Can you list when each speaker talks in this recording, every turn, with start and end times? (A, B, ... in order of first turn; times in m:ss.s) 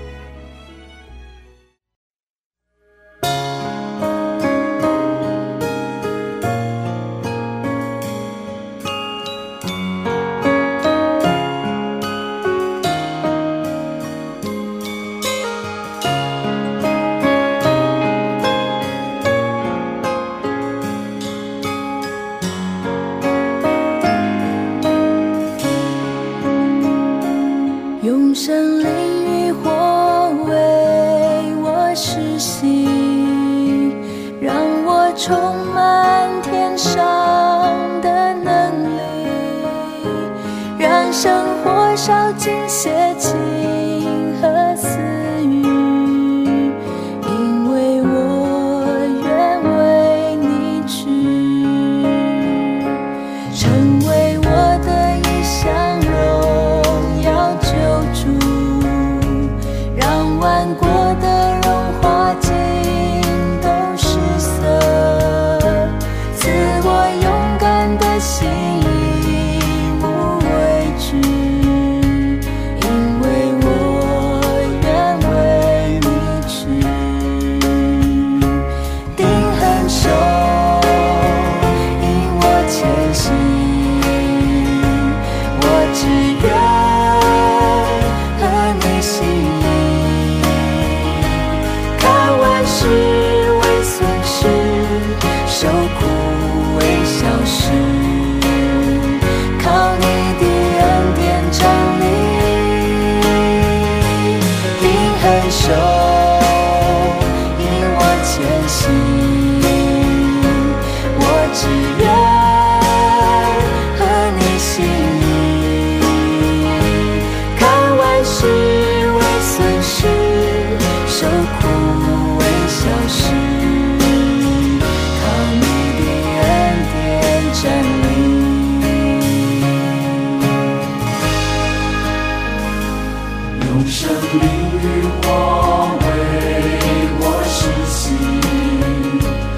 0:28.0-0:52.4 A
0:53.5-1:18.6 A
1:19.1-2:04.3 A
2:05.1-2:09.1 A
2:13.5-2:19.4 A